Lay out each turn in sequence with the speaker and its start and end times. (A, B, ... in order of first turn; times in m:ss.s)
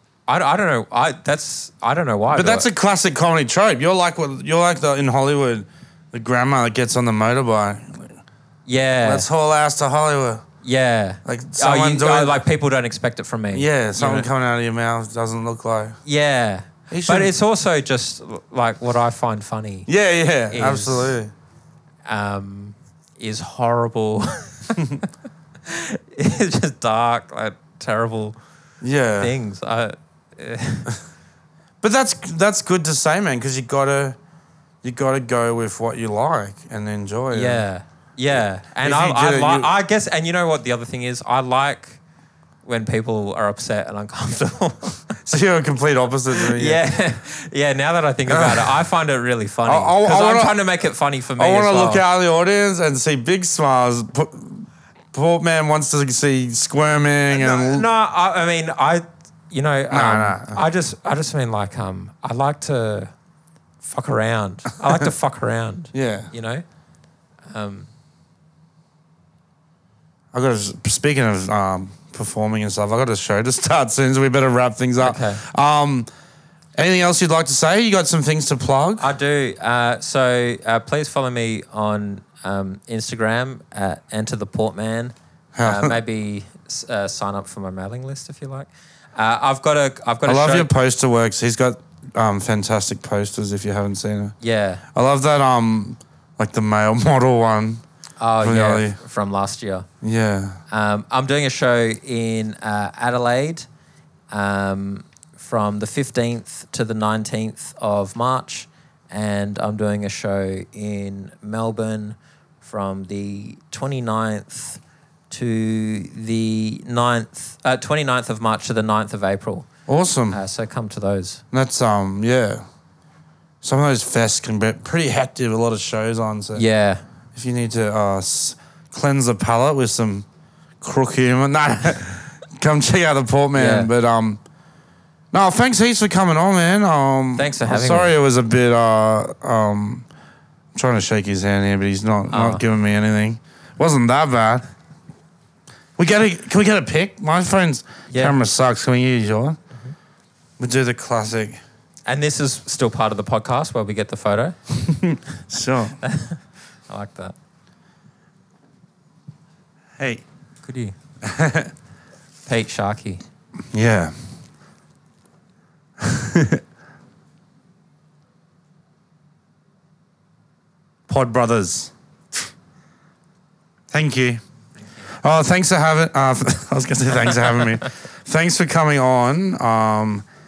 0:00.3-0:02.7 A
0:02.3-0:08.2 B
0:08.6-0:09.3 A
0:09.0-0:10.4 B
0:10.6-0:14.3 A
0:11.2-0:12.4 B
0:13.5-0:16.0 B
0:16.0-0:19.9 A
0:16.9-0:17.3 B
0:19.9-0:21.3 B
0:20.5-0:21.2 A
0:22.0-0:25.0 A
0:25.6-0:28.4 A
0:28.8-0:29.3 B
0:29.2-0:30.9 A
0:31.8-0:34.2 B
0:34.8-0:37.6 B
0:37.3-0:42.0 A
0:38.8-0:39.7 B
0:42.6-0:45.1 A
0:45.2-0:46.8 B
0:46.4-0:52.0 A
0:48.3-0:48.8 B
0:49.6-0:50.5 B
0:51.4-0:57.8 B
0:57.3-1:03.1 A
0:59.9-1:00.6 B
1:03.8-1:06.6 A
1:05.9-1:06.3 B
1:07.5-1:07.9 A
1:10.3-1:16.1 B
1:15.0-1:15.4 A
1:16.8-1:19.0 B
1:19.0-1:30.7 A
1:25.5-1:26.0 B
1:30.2-1:34.4 B
1:34.4-1:34.8 A
1:34.9-1:37.8 B
1:38.2-1:39.9 A
1:38.4-1:39.0 B
1:40.0-1:40.6 B
1:40.7-1:43.7 A
1:44.3-1:59.7 A
1:59.9-2:00.4 B
2:00.3-2:01.4 A
2:01.5-2:02.6 B
2:03.6-2:06.6 B
2:06.5-2:07.0 A
2:07.3-2:10.2 B
2:10.8-2:14.4 B
2:13.5-2:13.9 A
2:15.3-2:20.0 B
2:17.4-2:18.1 A
2:20.7-2:24.6 B
2:22.3-2:22.6 A
2:26.0-2:29.6 B
2:28.1-2:28.4 A
2:30.6-2:31.6 B
2:32.1-2:34.6 A
2:34.8-2:36.0 B
2:36.0-2:37.3 A
2:40.0-2:40.2 B
2:40.6-2:41.0 A
2:41.2-2:41.7 B
2:42.4-2:43.2 A
2:43.7-2:44.1 B
2:46.0-2:46.6 B
2:51.1-2:52.4 B
2:53.9-2:54.4 B
2:55.1-3:00.2 B